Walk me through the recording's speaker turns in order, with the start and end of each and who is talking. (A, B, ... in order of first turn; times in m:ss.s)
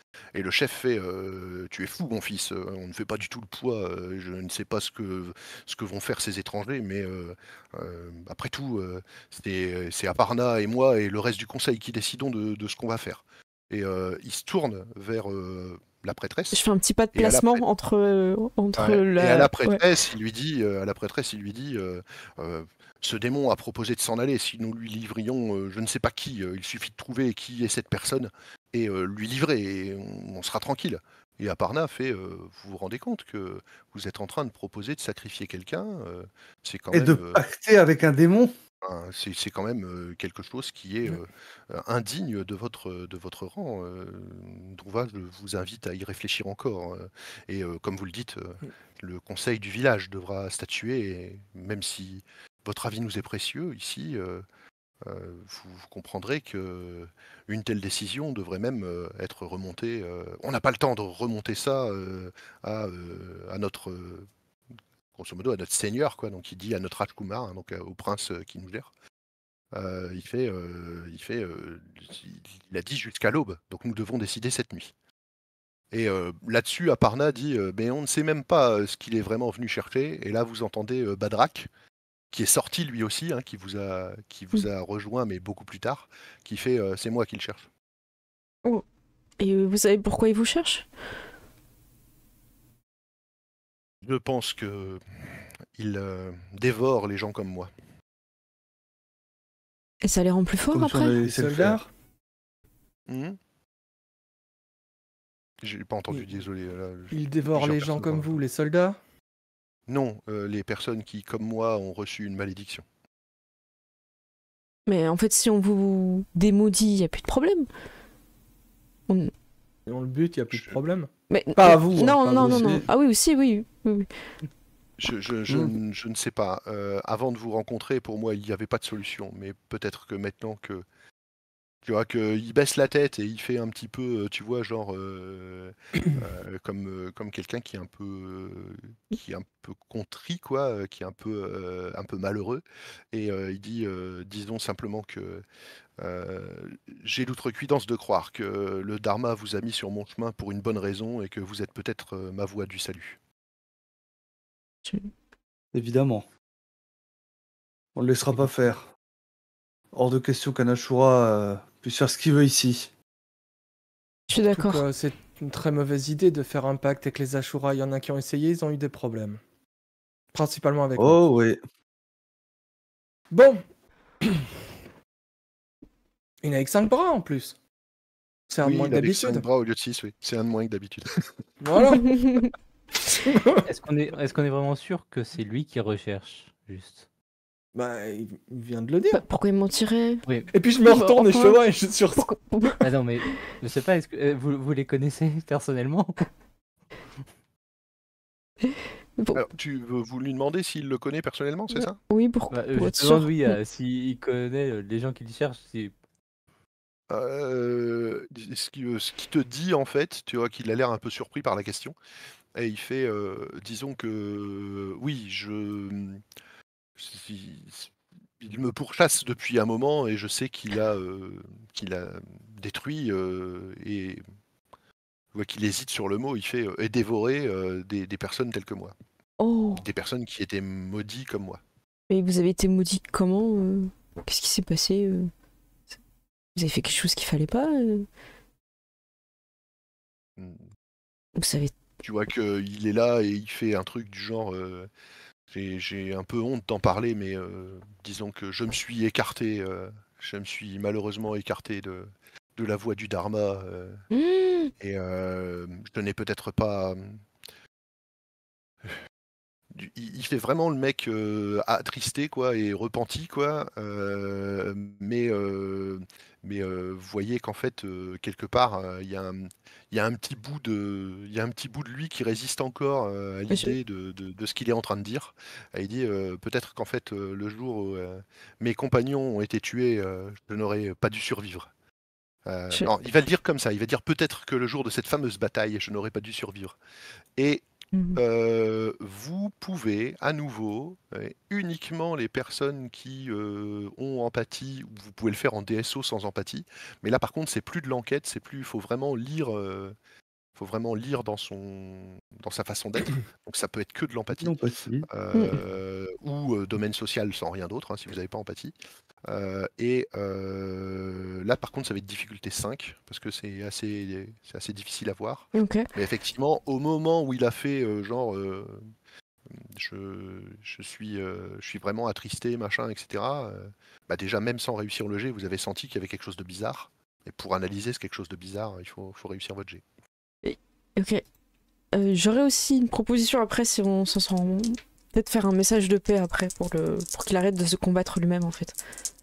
0:00.3-0:16.6 A
0:16.5-0:19.8 B
0:17.1-0:17.6 A
0:18.8-0:37.4 A
0:36.9-0:38.5 C
0:38.8-0:54.4 A
0:55.0-1:04.3 A
1:05.2-1:08.9 A
1:09.7-1:14.9 A
1:15.9-1:21.7 A
1:22.3-1:27.7 A
1:29.4-1:30.9 B
1:34.0-1:35.2 A
1:35.8-1:37.7 A
1:40.0-1:41.2 B
1:40.7-1:41.9 C
1:41.2-1:41.8 D
1:43.1-1:43.4 A
1:45.6-1:48.4 A
1:47.1-1:49.0 D
1:49.9-1:52.8 A
1:54.9-1:57.7 B
1:59.9-2:02.9 D
2:01.3-2:04.1 B
2:02.3-2:02.9 C
2:05.0-2:10.8 A
2:05.5-2:05.8 C
2:11.8-2:25.4 A
2:26.0-2:33.2 A
2:34.8-2:35.1 B
2:35.7-2:36.3 C
2:38.0-2:38.9 C
2:39.9-2:42.9 C
2:44.3-2:44.9 B
2:44.5-2:49.4 D
2:50.3-2:51.2 D
2:51.0-2:51.6 C
2:53.3-2:53.6 D
2:54.2-2:54.5 D
2:56.4-2:57.6 D
2:58.5-2:59.5 D
2:58.6-3:01.4 A
3:01.6-3:02.2 D
3:01.8-3:02.5 B
3:03.1-3:03.7 D
3:03.6-3:07.0 E
3:07.7-3:09.2 D
3:09.1-3:10.2 B
3:10.5-3:12.3 D
3:10.8-3:11.6 B
3:12.2-3:12.8 B
3:12.8-3:16.3 E
3:18.7-3:19.4 B
3:19.4-3:22.0 A
3:21.8-3:23.6 B
3:22.5-3:25.9 E
3:27.1-3:32.0 A
3:32.6-3:36.2 A
3:37.0-3:44.2 A
3:45.3-3:49.0 A
3:49.4-3:49.8 B
3:49.8-3:51.6 A
3:52.1-3:55.3 B
3:56.6-3:58.1 B
4:00.4-4:00.6 A
4:01.4-4:01.7 B
4:02.0-4:04.9 A
4:05.5-4:14.0 A
4:14.1-4:14.7 B
4:14.8-4:17.2 A
4:19.7-4:41.7 A
4:33.5-4:33.8 B
4:42.4-4:46.8 A
4:47.4-4:47.6 A
4:47.9-4:48.2 B
4:48.2-5:00.0 A
5:00.6-5:04.5 A
5:04.4-5:05.1 C
5:05.1-5:08.8 A
5:05.3-5:05.6 B
5:09.3-5:18.9 A
5:15.5-5:15.9 B
5:19.5-5:29.8 A
5:30.4-5:31.2 B
5:31.9-5:38.8 B